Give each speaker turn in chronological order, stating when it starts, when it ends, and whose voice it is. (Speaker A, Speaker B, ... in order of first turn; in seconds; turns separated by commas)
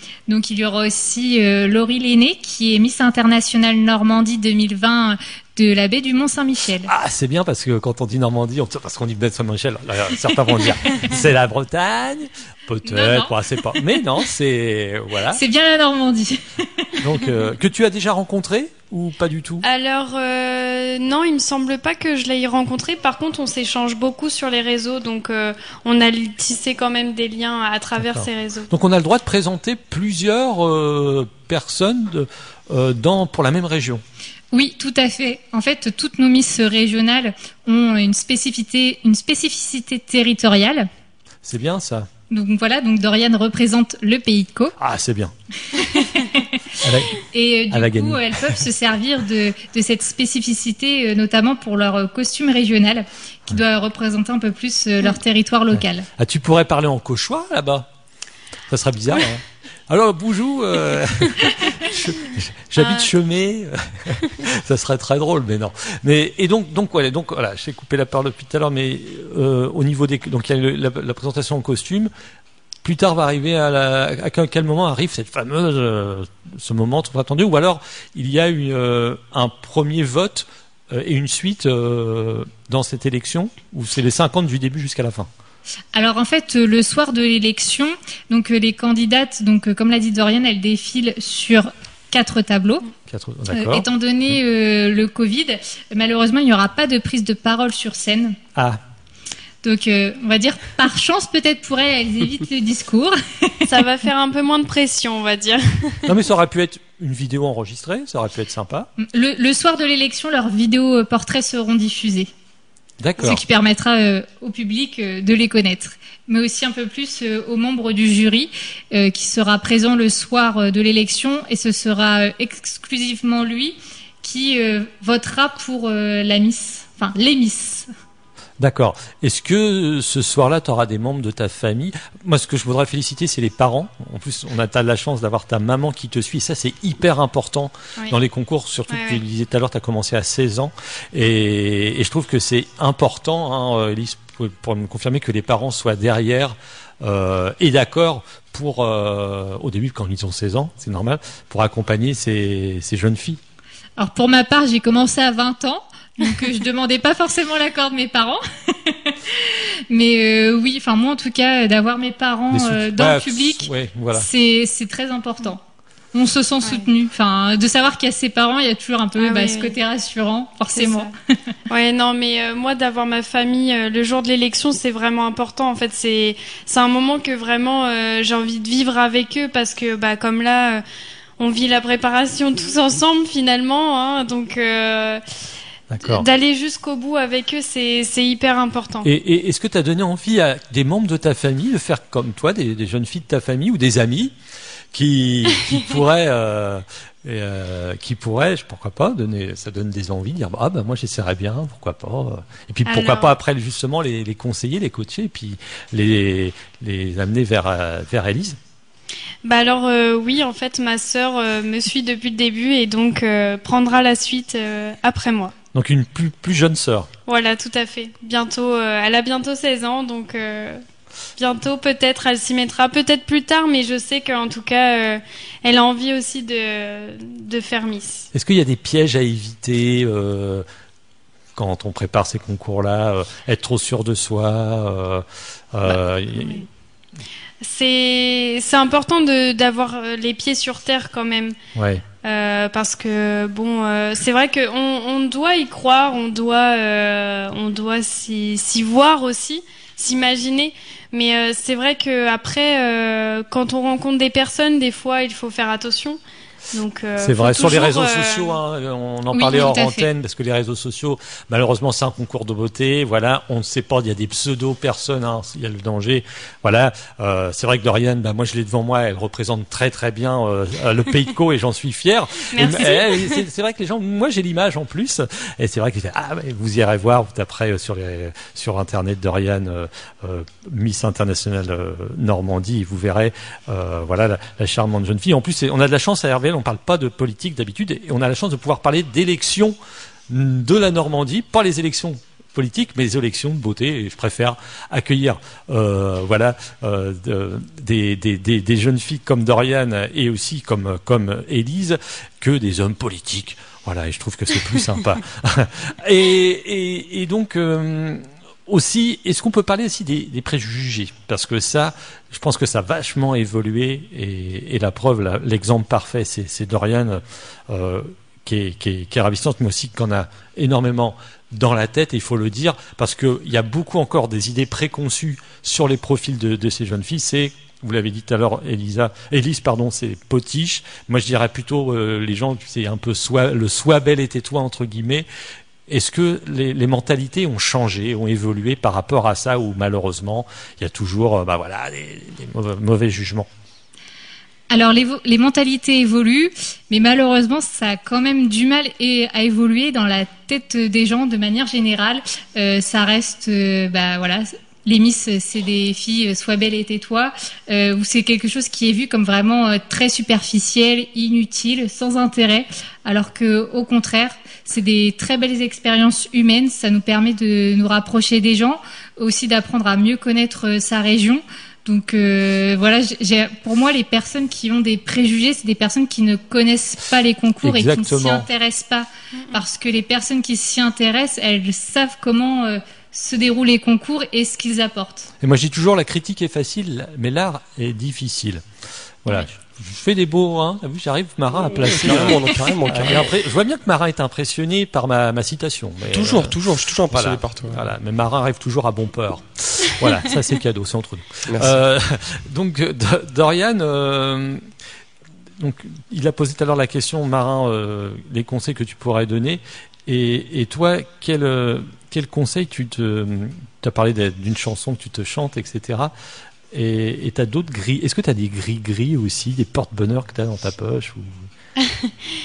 Speaker A: 0.3-6.9, Speaker B: 6.9-15.4, Speaker A: 12.8-14.0, Speaker A: 15.3-16.9, Speaker B: 17.0-19.6, Speaker C: 19.6-28.7, Speaker B: 28.0-34.0, Speaker A: 34.5-40.9, Speaker B: 41.4-42.1, Speaker A: 42.3-44.8, Speaker B: 44.8-45.3, Speaker A: 45.7-46.5, Speaker B: 46.8-47.1, Speaker A: 47.2-56.1, Speaker B: 47.7-48.6, Speaker B: 55.8-57.9, Speaker B: 58.7-72.1, Speaker C: 62.8-63.0, Speaker B: 72.8-85.3, Speaker A: 85.9-92.9, Speaker B: 93.1-93.9, Speaker A: 93.5-98.4, Speaker B: 98.5-98.8, Speaker A: 99.6-103.7, Speaker C: 103.7-106.2, Speaker B: 106.1-108.9, Speaker A: 109.0-112.3, Speaker B: 113.0-113.4, Speaker A: 113.2-127.9, Speaker B: 128.6-153.4, Speaker C: 138.9-139.2, Speaker A: 154.0-165.6, Speaker B: 162.5-164.3, Speaker A: 166.1-171.1, Speaker C: 169.2-169.8, Speaker C: 170.8-171.1, Speaker C: 171.7-180.8, Speaker C: 181.4-185.2, Speaker B: 185.9-186.3, Speaker C: 186.0-189.1, Speaker B: 189.1-194.3, Speaker B: 194.9-208.6, Speaker C: 202.9-203.3, Speaker C: 209.4-215.5, Speaker B: 215.7-217.1, Speaker C: 217.3-220.8, Speaker C: 221.4-228.3, Speaker B: 228.3-230.7, Speaker B: 231.6-236.7, Speaker C: 235.9-236.7, Speaker C: 237.6-241.6, Speaker B: 241.8-242.0, Speaker C: 242.2-256.2, Speaker C: 256.7-258.6, Speaker B: 257.2-289.8, Speaker A: 259.3-260.1, Speaker C: 272.5-273.4, Speaker B: 290.3-335.3, Speaker B: 335.9-343.5, Speaker A: 344.7-385.3, Speaker B: 377.6-378.5, Speaker C: 379.4-379.6, Speaker B: 385.4-388.6, Speaker B: 389.2-396.6, Speaker D: 391.8-393.3, Speaker D: 396.1-397.9, Speaker B: 397.1-404.6, Speaker D: 401.5-401.8, Speaker B: 405.6-416.1, Speaker B: 416.7-421.4, Speaker C: 421.8-422.1